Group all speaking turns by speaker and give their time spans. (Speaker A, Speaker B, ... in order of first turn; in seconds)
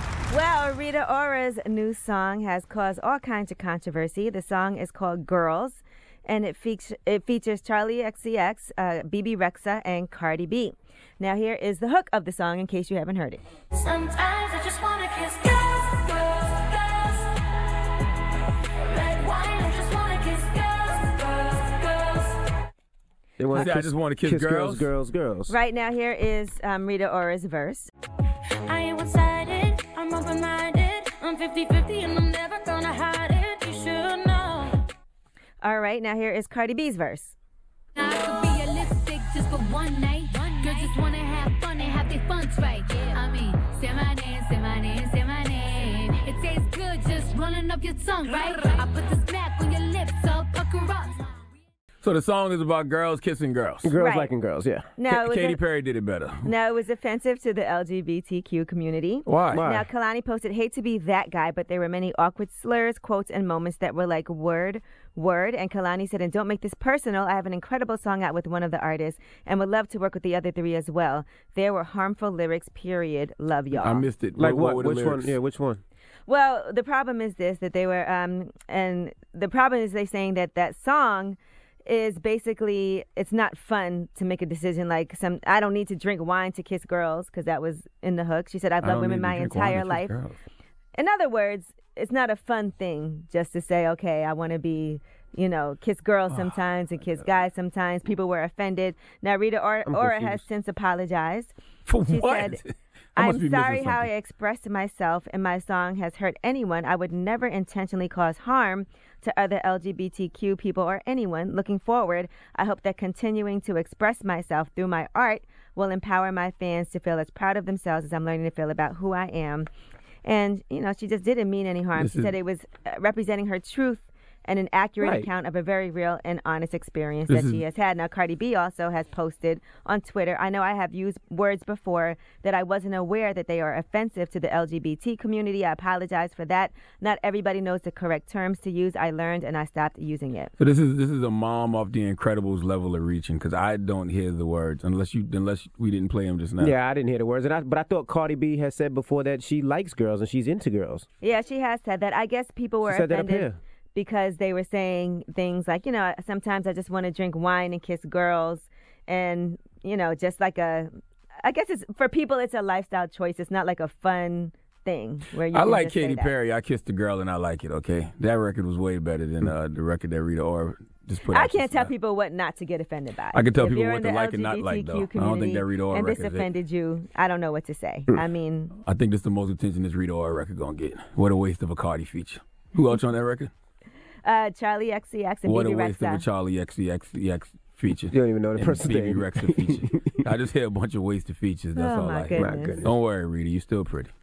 Speaker A: 0.3-13.4, 25.5-27.9, 35.6-37.4, 53.9-54.3, 55.0-55.6, 56.4-74.0, 76.3-90.1, 91.0-101.5, 102.1-102.6, 103.2-119.7, 120.2-140.5, 151.2-160.9, 161.4-166.3, 171.3-178.7, 184.2-186.2, 191.7-192.9
Speaker B: 13.7-17.4, 18.8-22.4, 28.6-34.8, 40.6-40.9
Speaker C: 23.4-25.5, 53.8-54.9, 59.5-59.9, 74.4-75.8, 99.8-100.4, 125.0-125.3, 146.6-151.1, 152.8-153.6, 188.1-190.2, 192.3-192.9
Speaker D: 23.5-24.9, 52.0-53.9, 55.1-56.5, 59.2-59.6, 73.7-75.4, 88.8-90.4, 101.8-104.1, 122.0-122.3, 127.3-127.6, 140.6-146.7, 165.5-171.9, 173.3-176.5, 178.8-183.5, 185.4-194.1
Speaker E: 38.0-51.2